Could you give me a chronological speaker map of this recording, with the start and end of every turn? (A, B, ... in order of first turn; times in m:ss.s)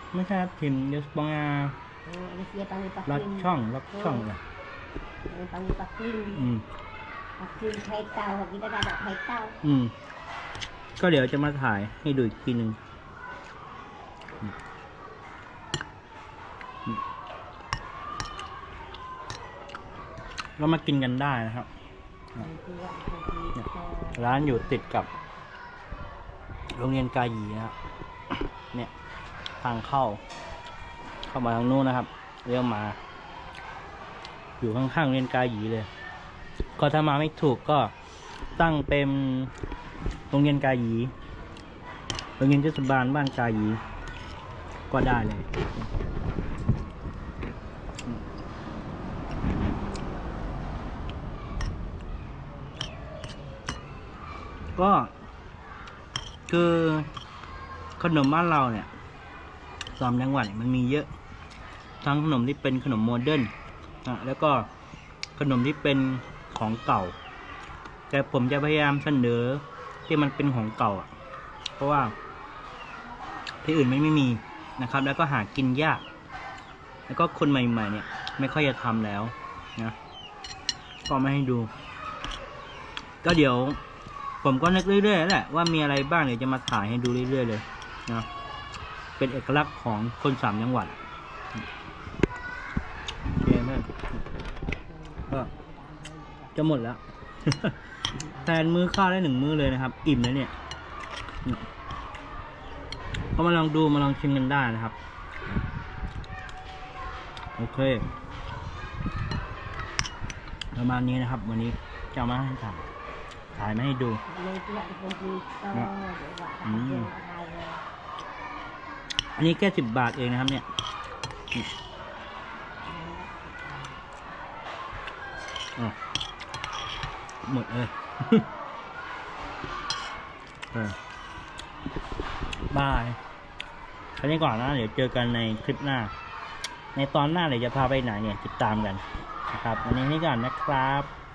0:00.1-0:01.8 A
0:02.1-0:04.3 B
0:03.1-0:04.4 A
0:05.3-0:06.5 B
0:06.4-0:06.7 A
0:07.4-0:09.6 B
0:09.6-0:09.9 A
0:11.0-0:12.8 A
0:20.6-0:21.7 A
0:22.4-0:25.5 B
0:23.6-0:25.1 A
0:26.8-0:27.8 A
0:28.3-0:28.9 A
0:29.6-0:30.2 A
0:31.2-0:33.0 A
0:34.6-0:35.9 A
0:36.8-0:37.9 A
0:38.6-0:39.5 A
0:40.3-0:41.1 A
0:42.4-0:43.8 A
0:44.9-0:45.7 A
0:54.8-0:55.1 A
0:56.5-0:57.1 A
0:58.0-0:58.9 A
1:00.0-1:01.1 A
1:02.0-1:03.5 A
1:04.0-1:04.7 A
1:05.4-1:07.2 A
1:08.1-1:11.1 A
1:11.8-1:12.2 A
1:13.6-1:16.0 A
1:17.1-1:20.0 A
1:21.1-1:21.7 A
1:23.2-1:23.8 A
1:24.4-1:28.3 A
1:29.2-1:31.0 A
1:33.3-1:34.1 A
1:34.7-1:36.6 B
1:36.6-1:37.8 A
1:38.4-1:40.5 A
1:43.4-1:45.0 A
1:47.6-1:48.1 A
1:50.7-1:52.9 A
1:53.5-1:54.2 A
1:54.3-1:57.9 B
1:56.6-1:57.1 A
1:59.4-2:00.7 A
2:02.8-2:04.0 B
2:07.4-2:08.5 A
2:10.7-2:11.0 A
2:12.7-2:13.2 A
2:14.2-2:16.1 A
2:17.0-2:21.1 A